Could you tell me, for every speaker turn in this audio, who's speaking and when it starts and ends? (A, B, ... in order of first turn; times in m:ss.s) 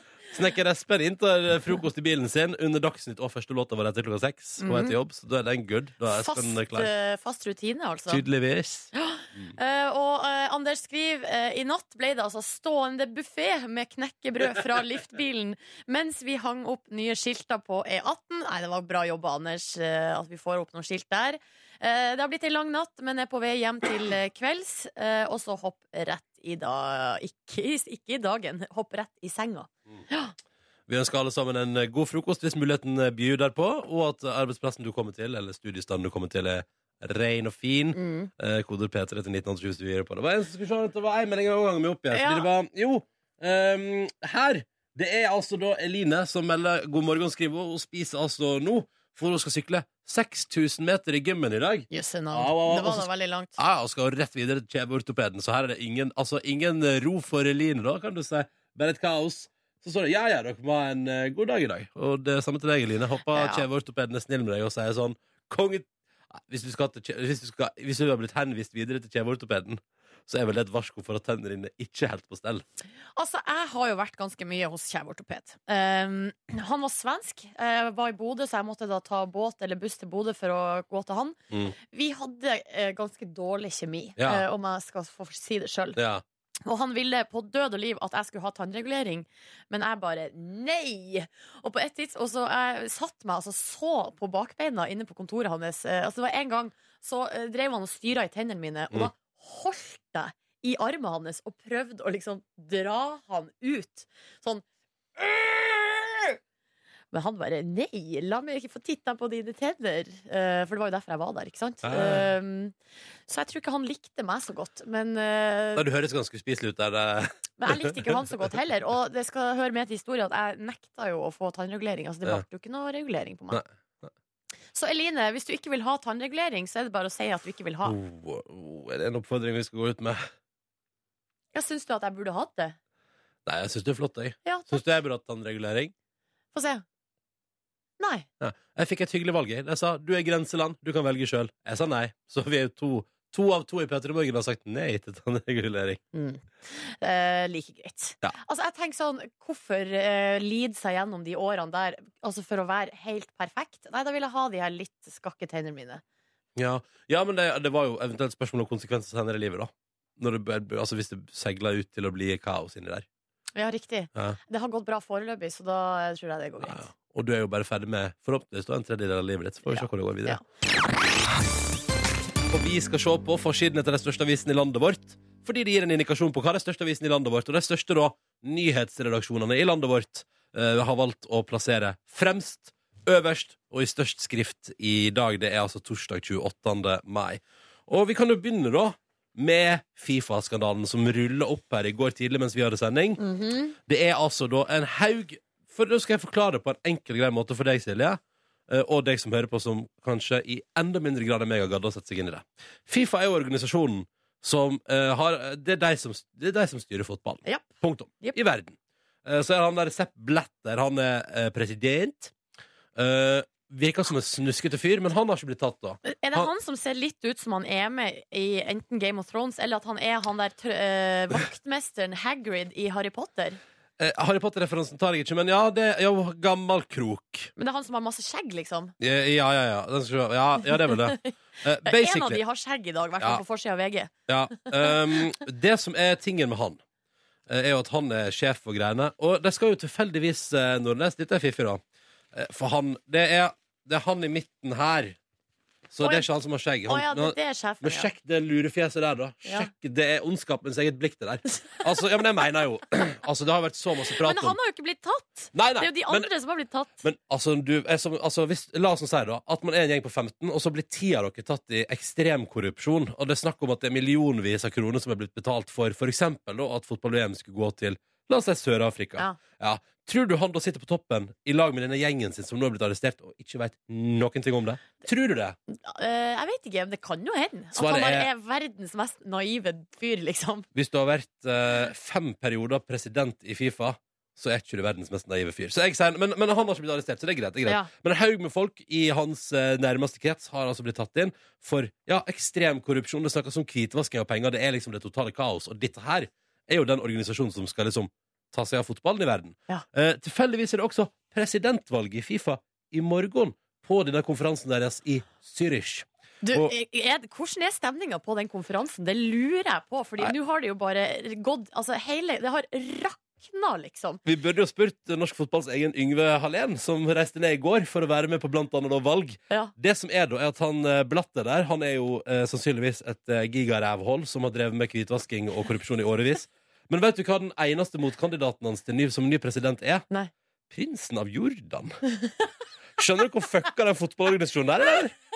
0:00.3-0:06.9 A
0:04.6-0:05.0 B
0:06.1-0:08.2 B
0:08.1-0:08.9 A
0:08.9-0:30.4 B
0:30.9-1:12.6 A
0:37.9-0:38.3 B
0:42.1-0:42.5 B
0:51.9-0:53.6 B
1:03.3-1:03.6 B
1:13.2-1:21.4 B
1:21.9-1:26.0 B
1:24.2-1:24.4 A
1:26.0-1:26.2 A
1:26.7-1:44.6 B
1:45.2-1:46.4 B
1:47.1-1:52.7 B
1:51.8-1:52.3 A
1:53.3-1:55.9 B
1:55.8-1:58.2 A
1:57.6-2:03.6 B
2:03.5-2:04.1 A
2:04.7-2:08.0 B
2:07.8-2:10.3 A
2:11.5-2:12.8 B
2:13.4-2:15.9 A
2:14.4-2:14.9 B
2:16.5-2:16.8 B
2:18.0-2:18.3 B
2:18.4-2:26.0 A
2:26.1-2:36.0 B
2:36.6-2:43.1 A
2:43.6-2:46.8 B
2:46.6-2:50.4 A
2:49.7-2:50.4 B
2:52.5-3:13.2 A
3:13.2-3:13.8 B
3:13.9-3:32.3 A
3:27.5-3:28.4 B
3:33.0-3:36.5 A
3:36.0-3:43.6 B
3:44.0-3:47.5 A
3:47.6-3:48.9 B
3:49.0-3:52.4 A
3:50.8-3:51.3 B
3:51.8-3:54.1 B
3:54.3-3:56.8 A
3:54.6-3:55.0 B
3:57.5-4:01.8 A
4:02.3-4:05.2 A
4:05.9-4:14.6 A
4:06.9-4:08.1 B
4:14.2-4:16.9 B
4:15.5-4:16.3 A
4:17.0-4:35.6 A
4:35.7-4:40.7 B
4:37.7-4:38.3 A
4:40.7-5:06.7 A
4:47.6-4:47.9 B
5:06.4-5:14.2 B
5:14.2-5:30.1 A
5:30.7-5:32.0 A
5:33.0-5:35.2 A